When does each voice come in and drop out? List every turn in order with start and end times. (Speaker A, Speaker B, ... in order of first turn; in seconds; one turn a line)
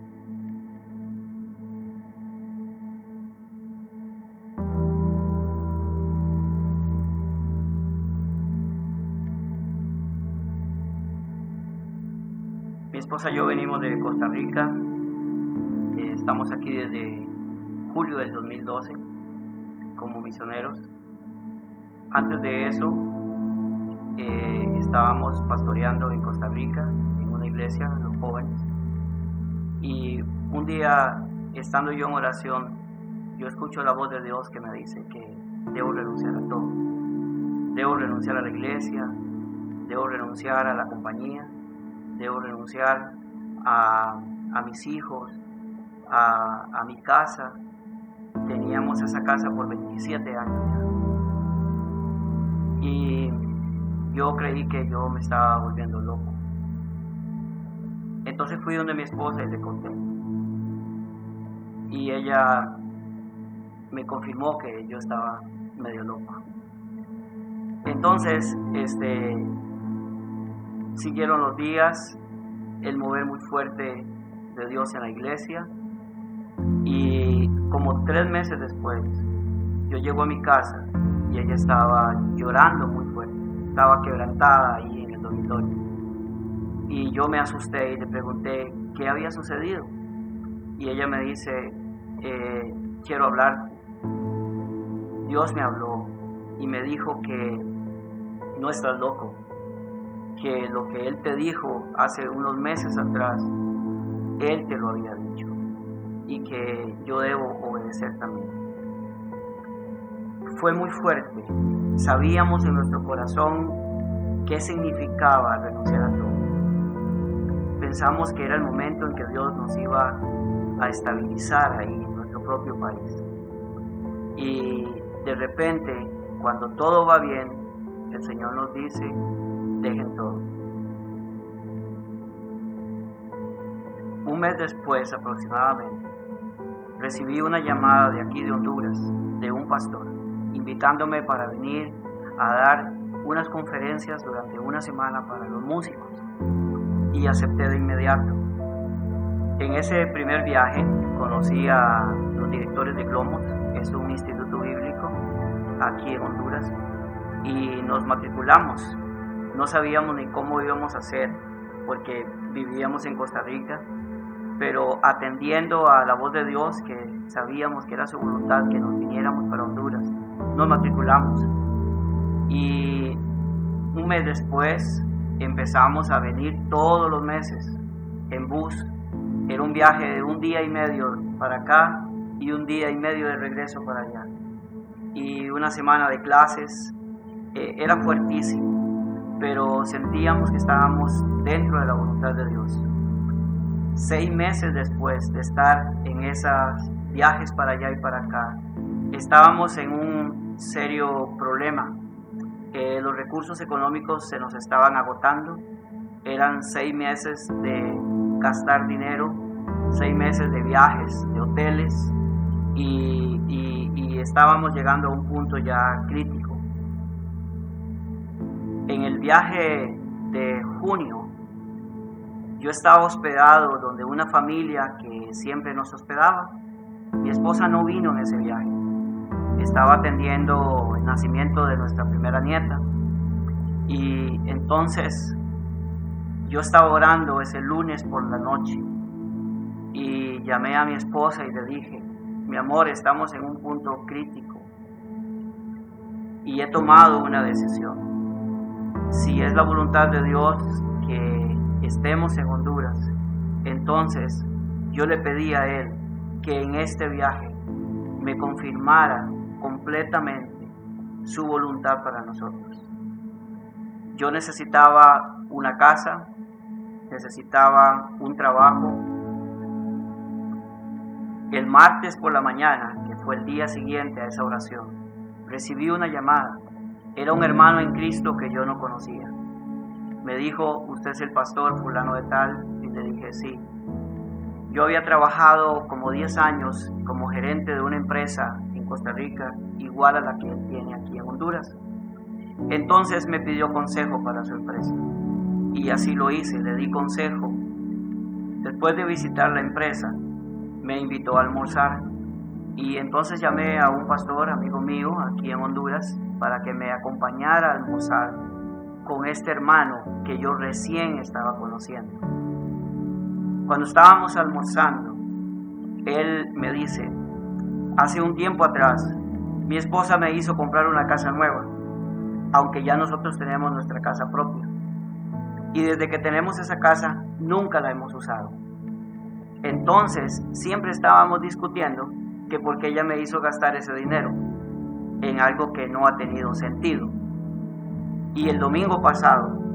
Speaker A: 12.9-14.8
Speaker A: 15.9-17.3
Speaker A: 17.9-19.0
Speaker A: 20.0-20.9
Speaker A: 22.1-23.1
Speaker A: 24.2-28.7
Speaker A: 29.8-32.8
Speaker A: 33.4-36.8
Speaker A: 37.7-39.1
Speaker A: 39.9-41.5
Speaker A: 42.1-45.4
Speaker A: 46.1-47.6
Speaker A: 48.4-50.9
Speaker A: 52.8-53.5
Speaker A: 54.0-56.4
Speaker A: 58.2-60.1
Speaker A: 61.9-62.8
Speaker A: 63.9-66.4
Speaker A: 67.8-69.6
Speaker A: 71.0-72.2
Speaker A: 72.8-75.7
Speaker A: 76.8-79.2
Speaker A: 79.9-85.8
Speaker A: 86.9-89.9
Speaker A: 90.8-93.7
Speaker A: 95.2-97.7
Speaker A: 98.5-99.4
Speaker A: 100.4-103.5
Speaker A: 104.4-105.5
Speaker A: 106.3-108.6
Speaker A: 110.5-113.8
Speaker A: 114.5-116.5
Speaker A: 117.8-120.2
Speaker A: 120.8-123.2
Speaker A: 124.4-129.2
Speaker A: 129.8-130.5
Speaker A: 134.2-136.1
Speaker A: 137.0-146.2
Speaker A: 147.1-148.4
Speaker A: 149.6-155.2
Speaker A: 155.8-156.8
Speaker A: 157.4-159.0
Speaker A: 159.5-163.9
Speaker A: 164.6-171.5
Speaker A: 172.5-173.2
Speaker A: 173.9-178.9
Speaker A: 179.5-184.3
Speaker A: 185.1-186.9
Speaker A: 187.5-188.8
Speaker A: 189.4-192.9
Speaker A: 193.9-198.6
Speaker A: 199.1-202.0
Speaker A: 202.7-205.7
Speaker A: 206.2-212.2
Speaker A: 212.7-216.6
Speaker A: 218.9-221.3
Speaker A: 222.6-226.6
Speaker A: 227.2-228.8
Speaker A: 229.6-232.8
Speaker A: 233.9-235.4
Speaker A: 236.4-238.9
Speaker A: 239.9-244.7
Speaker A: 246.4-248.1
Speaker A: 249.1-253.1
Speaker A: 253.6-257.6
Speaker A: 258.2-260.7
Speaker A: 261.2-262.9
Speaker A: 264.1-266.3
Speaker A: 267.1-269.1
Speaker A: 271.5-276.6
Speaker A: 277.2-279.4
Speaker A: 280.2-283.7
Speaker A: 284.7-291.8
Speaker A: 292.7-295.1
Speaker A: 295.7-297.6
Speaker A: 298.6-300.2
Speaker A: 300.8-302.1
Speaker A: 302.8-308.4
Speaker A: 309.1-312.2
Speaker A: 313.7-315.2
Speaker A: 316.0-317.2
Speaker A: 318.0-321.7
Speaker A: 322.5-324.7
Speaker A: 325.7-328.6
Speaker A: 329.6-334.4
Speaker A: 335.2-337.2
Speaker A: 338.3-339.6